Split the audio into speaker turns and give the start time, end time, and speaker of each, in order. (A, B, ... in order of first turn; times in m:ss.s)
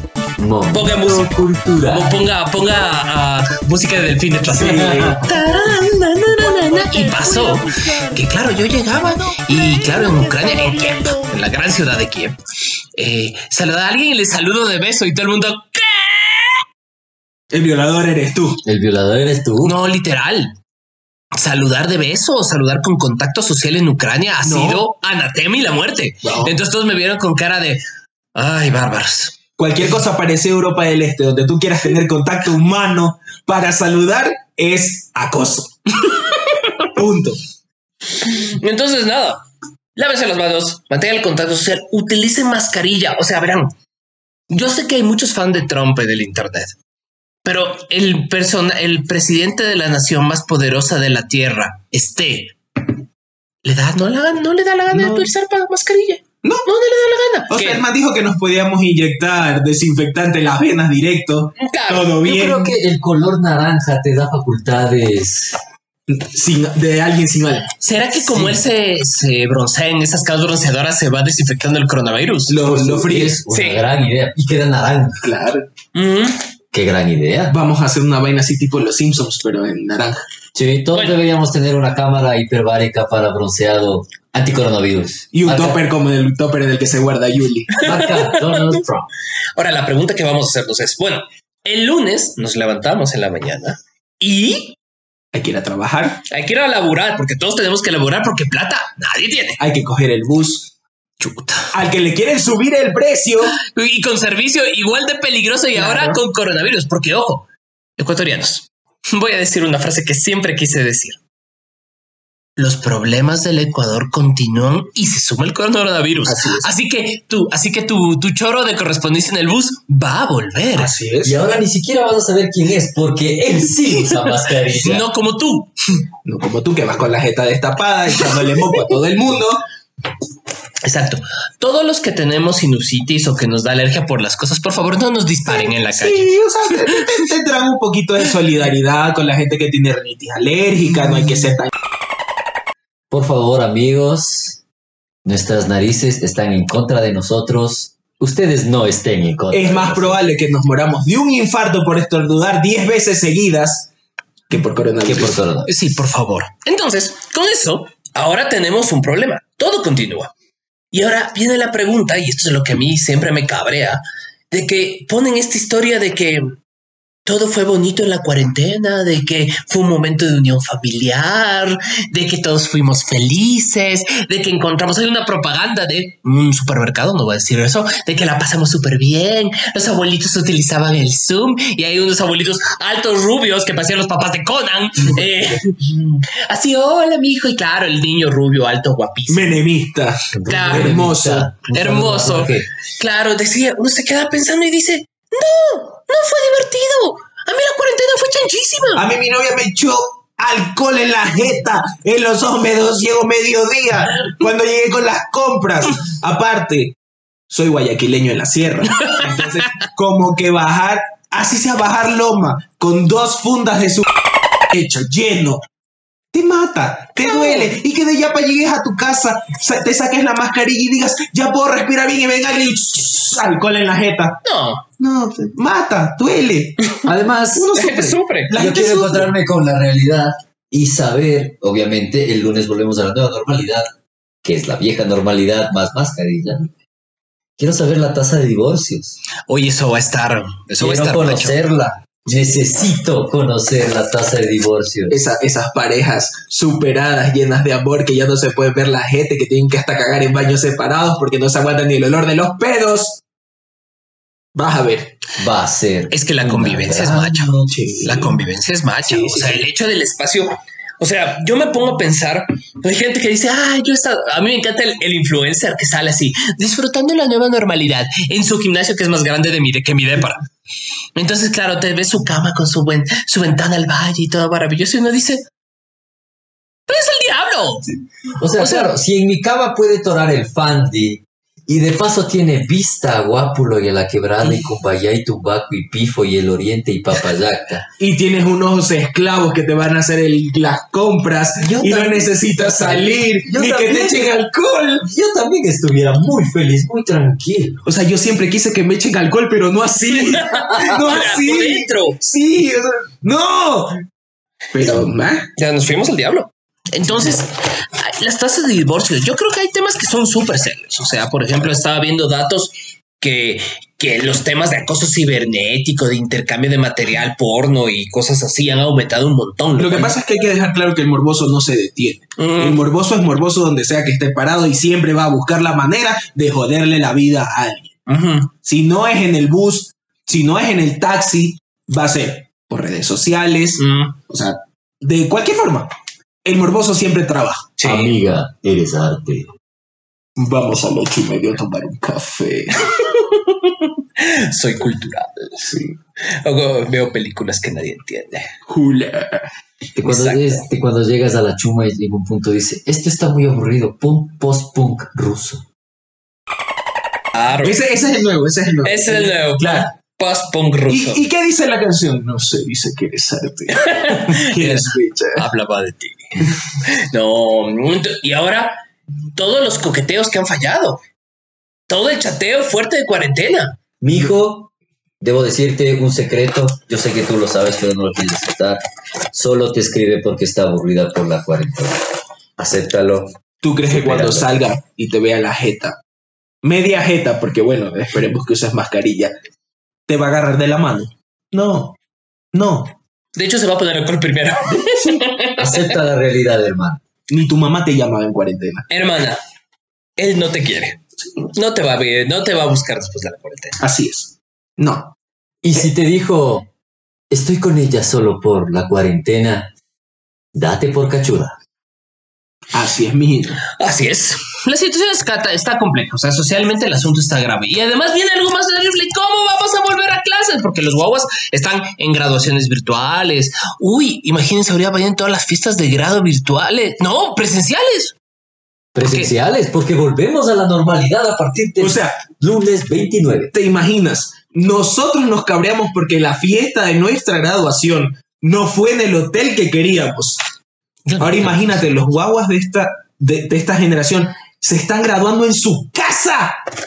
0:00.4-0:02.2 A
0:00.7-0:12.4 B
0:04.6-0:05.2 C
0:04.6-0:05.3 A
0:13.0-0:16.6 B
0:17.5-0:18.6 C
0:18.6-0:19.8 A
0:19.6-0:20.5 B
0:21.3-0:27.8 B
0:24.4-0:24.8 C
0:26.2-0:26.5 C
0:28.3-0:29.4 B
0:29.6-0:36.2 C
0:36.9-0:37.4 C
0:38.2-0:39.4 B
0:40.0-0:43.7 B
0:44.5-0:46.8 B
0:47.4-0:52.9 B
0:53.6-0:57.8 B
0:54.9-0:55.3 C
0:57.5-1:02.8 C
1:01.6-1:02.2 B
1:02.2-1:05.6 A
1:06.1-1:08.6 C
1:07.8-1:12.6 B
1:12.5-1:13.4 C
1:12.6-1:15.2 A
1:13.5-1:13.8 B
1:15.2-1:15.7 C
1:15.9-1:16.4 B
1:16.7-1:17.6 A
1:17.5-1:20.2 C
1:20.5-1:25.8 A
1:20.9-1:21.2 B
1:25.3-1:27.9 C
1:27.8-1:28.8 B
1:27.8-1:29.1 A
1:29.5-1:34.8 B
1:35.3-1:36.2 C
1:36.3-1:39.6 B
1:39.6-1:40.7 C
1:41.2-1:41.7 B
1:41.7-1:43.5 C
1:43.4-1:47.5 B
1:45.7-1:46.2 C
1:48.0-1:51.2 B
1:52.6-2:00.9 B
1:56.2-1:56.7 C
2:00.7-2:01.6 C
2:01.2-2:05.1 A
2:03.9-2:05.7 B
2:06.2-2:09.6 C
2:10.8-2:16.3 B
2:15.5-2:21.7 C
2:23.1-2:24.6 A
2:25.2-2:30.2 A
2:29.5-2:33.9 C
2:34.5-2:35.4 C
2:35.0-2:35.9 A
2:35.6-2:40.3 B
2:40.9-2:46.4 B
2:47.2-3:09.5 B
3:09.3-3:11.5 C
3:10.3-3:12.7 A
3:10.4-3:11.0 B
3:11.7-3:19.0 B
3:19.0-3:26.9 C
3:27.5-3:34.1 C
3:29.0-3:29.2 B
3:34.7-3:35.6 C
3:36.3-3:44.4 C
3:37.2-3:37.6 B
3:44.4-3:44.8 B
3:45.0-3:46.8 C
3:47.0-3:47.7 A
3:47.5-3:49.3 C
3:47.7-3:48.5 B
3:48.5-3:53.9 A
3:54.4-3:56.7 A
3:57.6-3:59.2 A
3:59.5-4:01.6 B
4:00.8-4:05.2 A
4:02.3-4:02.6 C
4:05.1-4:13.2 C
4:14.5-4:15.2 C
4:15.4-4:17.6 A
4:16.1-4:30.4 B
4:17.7-4:18.4 C
4:19.1-4:19.6 C
4:31.1-4:35.4 B
4:36.9-4:37.9 B
4:38.4-4:47.8 A
4:38.6-4:38.9 B
4:48.0-4:55.1 C
4:51.6-4:54.3 A
4:55.0-4:57.8 A
4:57.8-5:03.9 C
5:00.2-5:02.2 B
5:04.7-5:05.5 C
5:05.6-5:20.1 B
5:19.8-5:28.0 C
5:22.4-5:22.8 B
5:28.1-5:28.5 B
5:28.6-5:35.9 C
5:33.8-5:34.2 B
5:36.4-5:37.8 C
5:37.8-5:38.3 B
5:37.8-5:39.5 A
5:40.4-5:42.8 C
5:42.8-5:48.5 B
5:45.6-5:46.0 C
5:48.7-5:49.5 C
5:50.0-5:55.6 A
5:50.0-5:50.6 B
5:57.3-5:57.8 B
5:57.6-5:59.9 C
5:58.8-6:01.2 B
6:00.9-6:05.5 C
6:03.7-6:08.8 B
6:09.3-6:11.0 B
6:11.9-6:13.8 B
6:14.0-6:18.8 A
6:19.3-6:22.0 A
6:22.6-6:24.6 A
6:23.6-6:26.0 C
6:26.6-6:29.3 C
6:30.1-6:32.0 C
6:32.5-6:32.9 C
6:33.3-6:35.9 B
6:35.6-6:37.0 A
6:37.3-6:38.8 C
6:38.9-6:39.4 B
6:40.2-6:43.8 B
6:43.8-6:45.1 C
6:45.6-6:46.7 A
6:47.3-6:49.7 A
6:50.5-6:51.6 A
6:52.7-6:53.6 C
6:53.8-7:08.1 B
7:08.9-7:13.5 A
7:09.0-7:09.3 B
7:11.8-7:12.2 C
7:13.5-7:20.4 C
7:21.0-7:21.9 B
7:21.2-7:26.5 C